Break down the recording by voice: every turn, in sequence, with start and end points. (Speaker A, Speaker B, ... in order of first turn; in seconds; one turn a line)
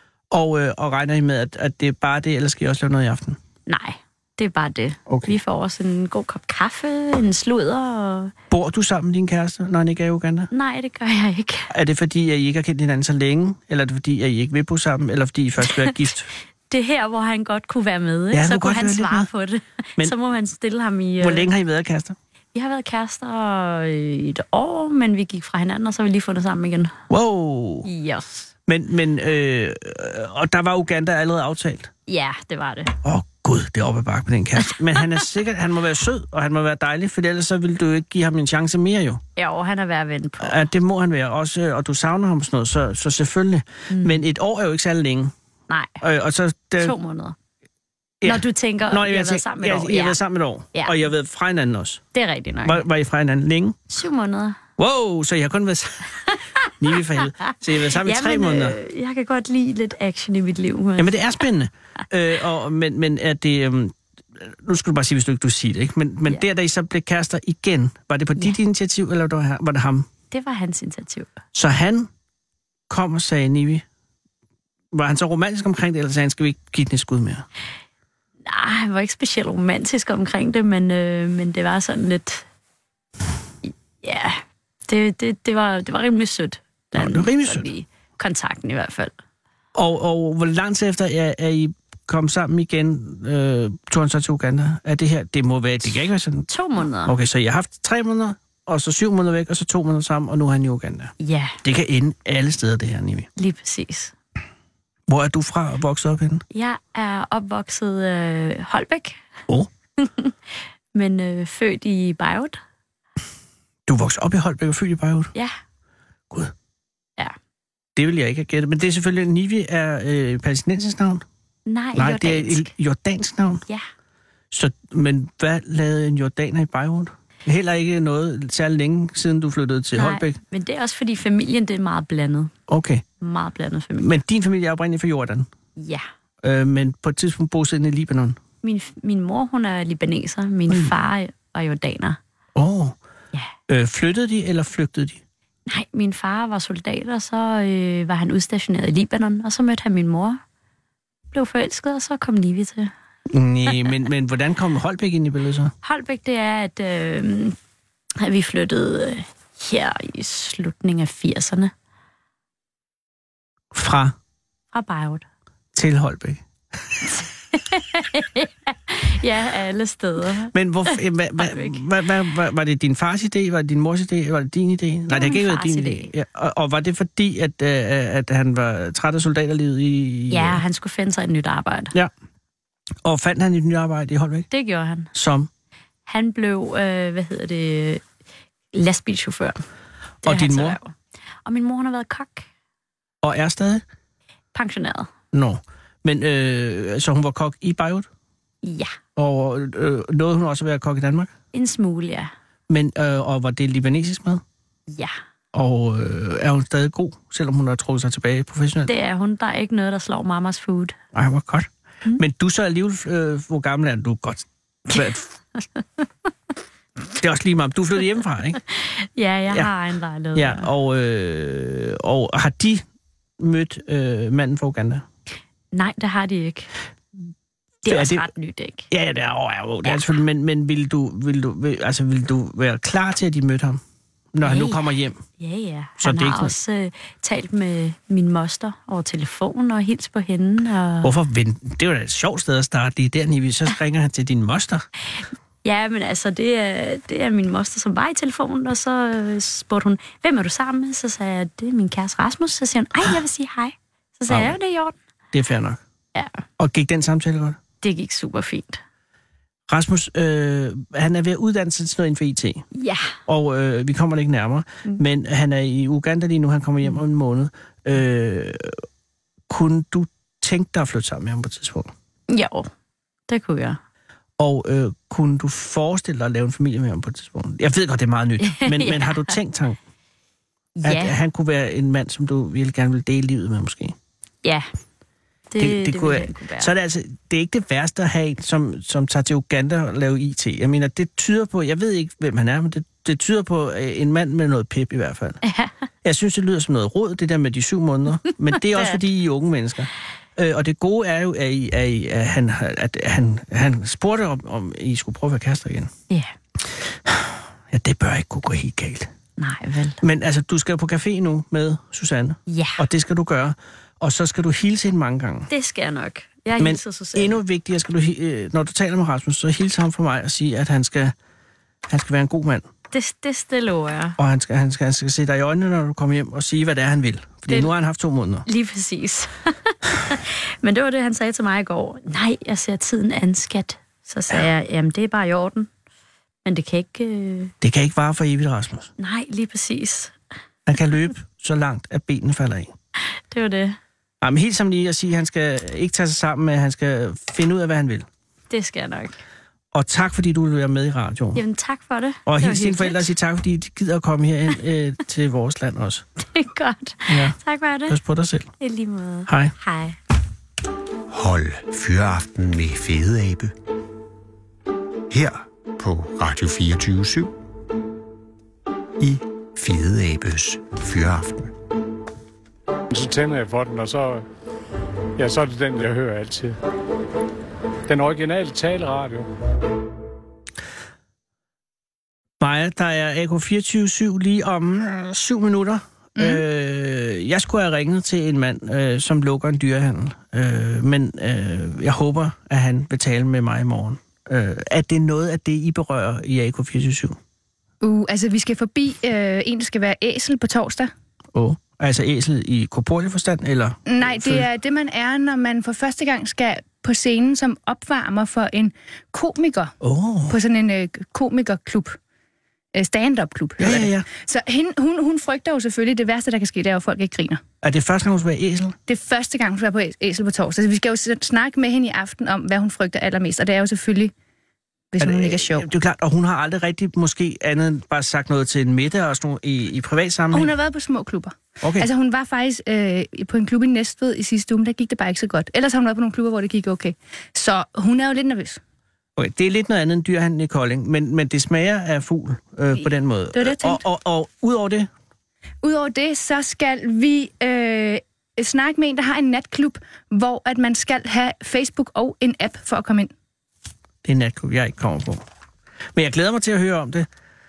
Speaker A: 0.3-3.4
Speaker B: 3.7-8.3
Speaker A: 5.1-5.3
Speaker A: 8.5-10.5
Speaker B: 10.5-11.7
Speaker A: 11.7-16.3
Speaker B: 16.7-21.5
Speaker A: 18.3-19.3
Speaker A: 21.2-22.1
Speaker B: 22.5-26.9
Speaker A: 27.1-27.9
Speaker B: 27.8-28.5
Speaker A: 28.7-31.9
Speaker B: 32.1-32.9
Speaker A: 33.0-39.2
Speaker B: 34.7-35.2
Speaker B: 39.4-40.6
Speaker A: 40.4-45.3
Speaker B: 43.9-44.2
Speaker B: 45.7-46.0
Speaker A: 46.0-46.9
Speaker B: 46.8-47.4
Speaker A: 48.2-52.0
Speaker B: 48.2-50.2
Speaker B: 52.1-52.8
Speaker A: 52.6-53.8
Speaker B: 53.9-54.6
Speaker A: 54.8-58.8
Speaker B: 56.3-61.1
Speaker A: 61.0-70.1
Speaker B: 70.3-71.3
Speaker A: 71.5-72.1
Speaker A: 72.9-73.8
Speaker A: 74.9-77.4
Speaker B: 78.4-82.4
Speaker B: 83.6-89.1
Speaker A: 86.9-87.7
Speaker A: 89.7-96.5
Speaker B: 96.5-97.2
Speaker A: 97.0-103.3
Speaker B: 101.2-101.6
Speaker B: 103.4-104.1
Speaker A: 105.1-106.4
Speaker B: 106.5-109.2
Speaker B: 110.0-112.6
Speaker A: 113.9-115.3
Speaker A: 118.0-121.2
Speaker B: 121.7-122.7
Speaker A: 121.9-123.6
Speaker A: 124.5-130.4
Speaker B: 129.9-132.5
Speaker A: 132.7-133.0
Speaker B: 133.2-134.2
Speaker A: 134.0-135.5
Speaker B: 135.8-136.1
Speaker A: 136.4-138.4
Speaker B: 138.6-142.2
Speaker A: 142.5-142.9
Speaker A: 143.7-145.2
Speaker B: 145.7-150.4
Speaker B: 151.3-152.9
Speaker A: 153.3-155.7
Speaker B: 155.8-157.6
Speaker B: 158.2-161.7
Speaker A: 163.7-164.1
Speaker B: 164.7-165.2
Speaker A: 165.7-166.4
Speaker B: 167.5-171.8
Speaker A: 170.5-180.6
Speaker B: 175.1-176.1
Speaker B: 180.3-181.9
Speaker A: 183.0-184.5
Speaker B: 184.5-185.1
Speaker A: 185.1-185.5
Speaker B: 186.1-188.0
Speaker B: 188.7-189.6
Speaker B: 190.2-190.9
Speaker A: 190.2-190.8
Speaker B: 191.4-192.5
Speaker A: 193.2-193.8
Speaker B: 194.5-195.1
Speaker A: 195.3-198.1
Speaker B: 198.6-198.9
Speaker A: 199.2-201.3
Speaker B: 201.5-202.3
Speaker A: 202.7-204.4
Speaker B: 204.9-205.2
Speaker A: 205.5-208.9
Speaker B: 208.8-210.9
Speaker A: 211.1-215.3
Speaker B: 215.8-216.1
Speaker A: 217.2-218.6
Speaker B: 218.7-220.7
Speaker A: 220.3-222.8
Speaker A: 223.4-225.0
Speaker B: 225.7-226.7
Speaker B: 227.8-228.9
Speaker A: 227.9-228.3
Speaker A: 228.9-233.8
Speaker B: 229.8-230.2
Speaker A: 234.3-235.2
Speaker B: 234.4-234.8
Speaker B: 235.4-241.1
Speaker A: 236.0-236.5
Speaker A: 241.0-244.8
Speaker B: 245.6-254.9
Speaker A: 254.3-254.6
Speaker A: 255.3-255.8
Speaker B: 256.1-256.4
Speaker A: 256.6-257.6
Speaker B: 257.8-258.8
Speaker A: 259.7-262.6
Speaker B: 262.7-263.1
Speaker A: 263.2-268.8
Speaker A: 269.5-271.9
Speaker B: 272.3-272.7
Speaker B: 273.3-273.8
Speaker A: 274.4-279.8
Speaker B: 278.4-279.4
Speaker B: 280.8-281.2
Speaker A: 280.8-283.9
Speaker B: 285.5-286.7
Speaker A: 285.6-295.4
Speaker B: 295.4-295.7
Speaker A: 296.0-305.9
Speaker B: 298.3-299.0
Speaker A: 306.7-309.1
Speaker B: 309.4-310.0
Speaker A: 310.0-315.5
Speaker B: 312.5-312.8
Speaker B: 315.5-317.4
Speaker A: 316.6-321.1
Speaker A: 321.9-322.6
Speaker B: 322.9-324.2
Speaker A: 324.2-328.4
Speaker B: 328.4-335.7
Speaker B: 336.4-337.5
Speaker A: 337.6-338.9
Speaker B: 339.0-340.1
Speaker A: 340.6-342.7
Speaker B: 343.3-343.8
Speaker A: 344.2-348.1
Speaker B: 348.5-349.2
Speaker A: 349.7-351.4
Speaker B: 351.4-353.1
Speaker A: 352.2-356.0
Speaker B: 356.2-358.0
Speaker A: 357.1-357.4
Speaker A: 357.9-358.5
Speaker B: 358.6-360.0
Speaker A: 359.3-359.5
Speaker C: 361.1-363.5
Speaker C: 365.1-367.3
Speaker C: 369.0-371.5
Speaker D: 372.9-374.2
Speaker D: 375.2-376.6
Speaker D: 377.9-379.3
Speaker A: 382.4-397.2
Speaker E: 397.8-400.9
Speaker A: 401.3-404.5
Speaker E: 403.9-409.7
Speaker A: 409.8-410.4
Speaker E: 410.3-412.0
Speaker E: 412.7-417.4
Speaker A: 413.6-414.1
Speaker A: 417.6-418.8
Speaker E: 418.9-424.1
Speaker E: 424.9-425.6
Speaker A: 425.0-430.5
Speaker E: 430.3-438.6
Speaker A: 431.6-431.9
Speaker A: 439.2-444.9
Speaker E: 442.7-443.8
Speaker E: 445.6-453.1
Speaker A: 454.0-455.2
Speaker A: 455.9-457.1